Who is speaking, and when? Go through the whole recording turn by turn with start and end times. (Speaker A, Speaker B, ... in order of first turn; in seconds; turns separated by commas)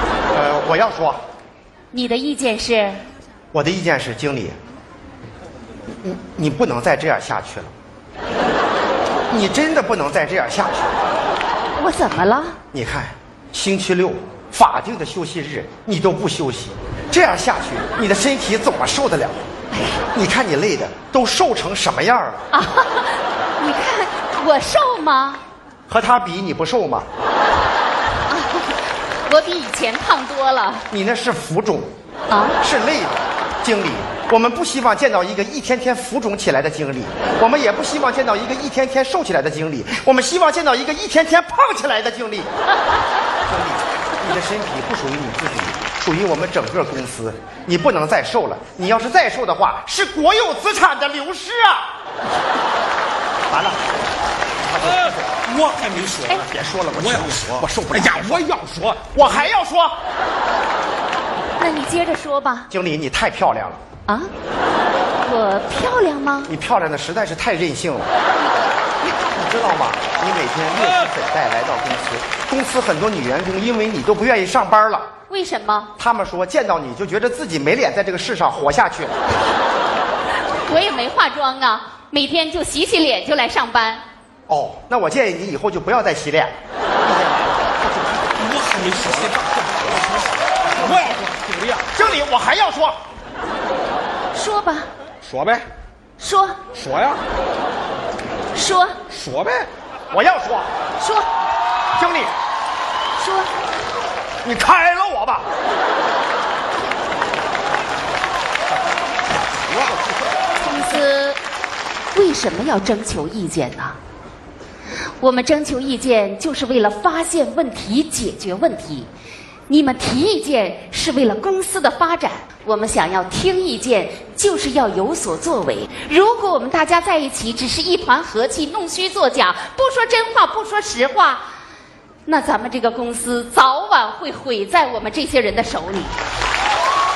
Speaker A: 0.3-1.2, Speaker B: 1.9-3.0, Speaker A: 3.5-4.6, Speaker A: 6.0-7.7, Speaker A: 9.3-11.1, Speaker B: 11.8-12.6, Speaker A: 12.7-19.5, Speaker B: 19.7-20.0, Speaker A: 20.1-22.5, Speaker B: 22.5-25.4, Speaker A: 25.9-27.1, Speaker B: 28.3-30.9, Speaker A: 30.9-31.9, Speaker B: 32.3-32.6, Speaker A: 32.6-42.5, Speaker A: 43.4-51.9, Speaker A: 53.5-53.9, Speaker A: 54.6-55.4, Speaker C: 55.5-59.5, Speaker A: 56.4-58.5, Speaker A: 59.1-60.0, Speaker B: 61.6-62.7, Speaker A: 62.7-63.8, Speaker B: 64.1-64.3, Speaker B: 65.2-66.5, Speaker A: 66.5-68.1, Speaker A: 69.2-75.1, Speaker B: 75.3-75.9, Speaker A: 76.0-79.2, Speaker B: 80.6-84.0, Speaker A: 84.5-88.3, Speaker C: 88.4-91.9, Speaker A: 90.8-91.2, Speaker A: 91.9-93.0, Speaker B: 94.3-94.9, Speaker C: 95.2-95.7, Speaker B: 96.2-96.6, Speaker C: 96.7-97.2, Speaker B: 98.5-99.0, Speaker C: 99.1-99.7, Speaker A: 100.1-100.7, Speaker B: 101.0-101.3, Speaker A: 102.0-102.3, Speaker B: 103.2-103.5, Speaker A: 104.4-105.5, Speaker B: 110.6-111.4, Speaker B: 112.1-114.0, Speaker B: 115.2-119.1, Speaker B: 119.7-131.4, Speaker B: 132.2-136.2